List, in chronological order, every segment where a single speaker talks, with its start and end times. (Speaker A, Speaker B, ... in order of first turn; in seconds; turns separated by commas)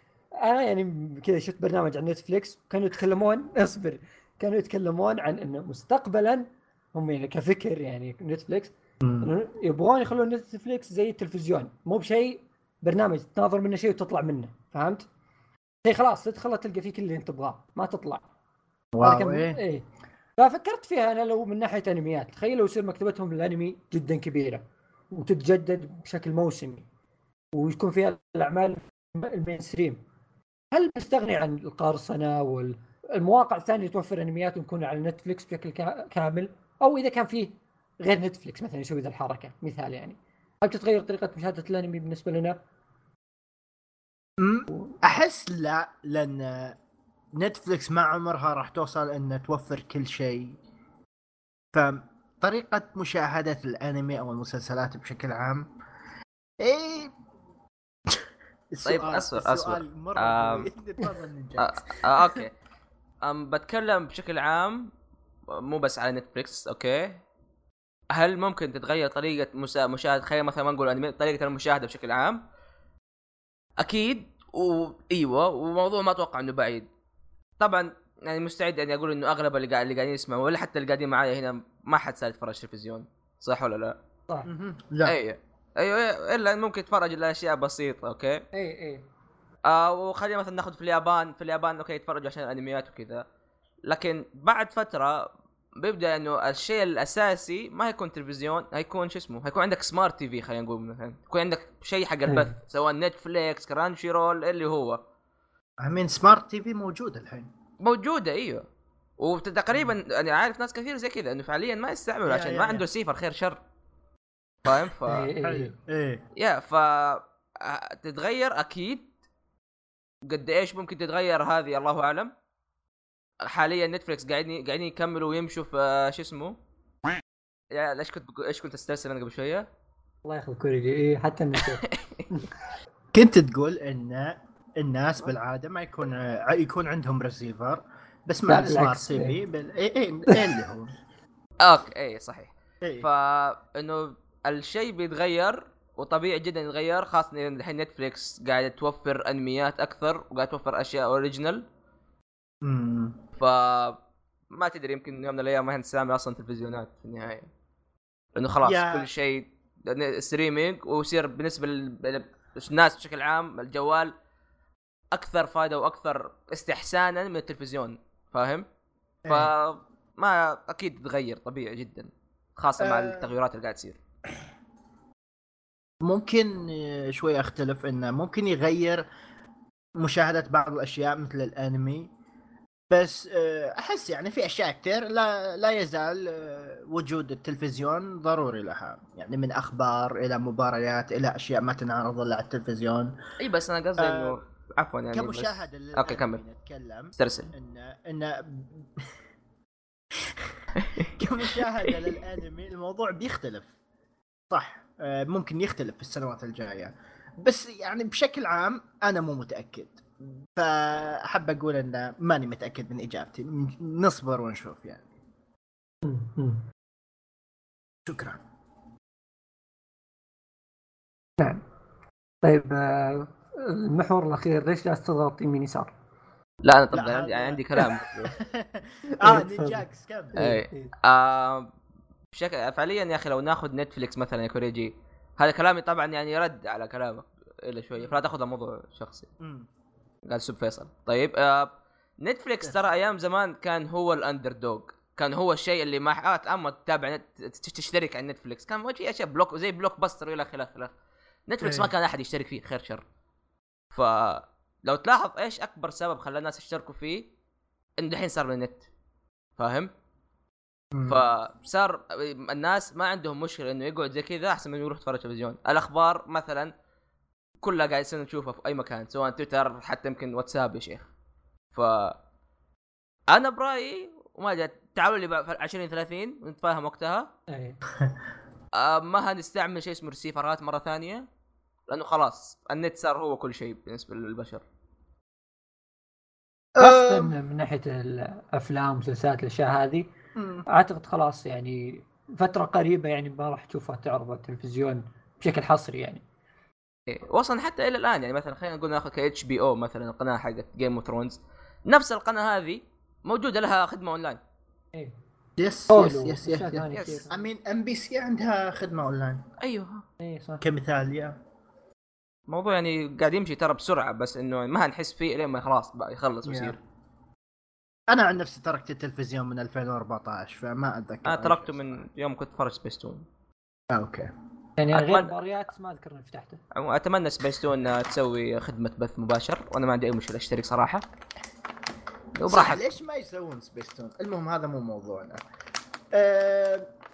Speaker A: 0.4-15.1, Speaker B: 9.0-9.3, Speaker A: 15.8-18.2, Speaker B: 18.9-19.6, Speaker A: 19.0-19.9, Speaker A: 20.4-26.9, Speaker A: 27.5-30.0, Speaker A: 30.7-42.6, Speaker B: 44.4-46.8, Speaker B: 47.4-50.6, Speaker B: 51.7-55.7, Speaker B: 56.6-57.1, Speaker B: 58.1-62.4, Speaker C: 58.8-60.7, Speaker C: 61.6-62.5, Speaker C: 63.2-64.9, Speaker C: 65.5-67.2, Speaker C: 68.1-72.4, Speaker C: 73.8-76.9, Speaker C: 77.6-83.9, Speaker B: 84.5-85.2, Speaker C: 85.0-88.4, Speaker A: 88.5-89.0, Speaker C: 89.7-93.2, Speaker C: 93.9-105.0, Speaker A: 102.3-102.5, Speaker B: 105.8-107.5, Speaker C: 107.8-108.6, Speaker C: 109.2-113.6, Speaker B: 112.2-112.8, Speaker C: 114.6-115.3, Speaker A: 115.1-115.7, Speaker B: 115.4-116.2, Speaker C: 116.4-119.1, Speaker C: 120.2-122.3, Speaker C: 123.5-126.5, Speaker C: 127.7-129.7, Speaker A: 130.2-132.5, Speaker C: 131.8-132.2, Speaker B: 133.1-140.9, Speaker A: 138.5-139.3, Speaker C: 141.6-151.6, Speaker B: 152.6-153.2, Speaker C: 153.4-154.0, Speaker C: 154.5-157.5, Speaker C: 158.3-164.1, Speaker B: 158.6-159.1, Speaker C: 165.1-168.7, Speaker B: 169.2-169.5, Speaker C: 169.3-174.0, Speaker B: 172.8-173.3, Speaker B: 176.0-179.0, Speaker B: 180.0-182.1, Speaker B: 182.9-193.1, Speaker C: 193.4-196.4, Speaker B: 194.0-194.4, Speaker B: 195.1-199.1, Speaker C: 197.2-197.5, Speaker B: 200.1-200.6, Speaker C: 200.8-201.1, Speaker B: 201.1-203.7, Speaker B: 204.5-215.1, Speaker A: 216.0-216.6, Speaker B: 218.1-218.4, Speaker A: 222.4-225.9, Speaker C: 226.6-228.3, Speaker B: 226.9-230.4, Speaker A: 229.1-230.9, Speaker C: 230.4-231.7, Speaker C: 232.3-239.3, Speaker B: 239.4-239.7, Speaker C: 240.3-241.7, Speaker C: 242.2-250.9, Speaker C: 251.5-253.0, Speaker B: 251.6-251.9, Speaker C: 253.9-257.3, Speaker C: 258.0-258.9, Speaker C: 259.6-259.9, Speaker B: 260.9-261.2, Speaker C: 261.1-266.7, Speaker C: 267.6-271.1, Speaker C: 271.7-272.1, Speaker C: 273.3-277.3, Speaker A: 277.5-277.8, Speaker C: 278.8-281.2, Speaker C: 281.9-284.6, Speaker B: 286.8-287.4, Speaker A: 286.8-290.1, Speaker B: 290.4-290.6, Speaker A: 290.7-296.2, Speaker C: 297.1-304.4, Speaker B: 305.6-309.4, Speaker A: 305.9-307.3, Speaker C: 306.9-307.2, Speaker C: 309.6-310.0, Speaker A: 310.2-310.6, Speaker B: 310.6-311.4, Speaker C: 312.5-316.8, Speaker B: 316.4-316.8, Speaker B: 318.1-322.0, Speaker C: 321.2-323.2, Speaker B: 323.9-324.3, Speaker A: 324.8-326.6, Speaker C: 324.9-325.3, Speaker C: 326.7-331.0, Speaker C: 332.4-332.8, Speaker B: 332.5-335.4, Speaker B: 336.1-336.9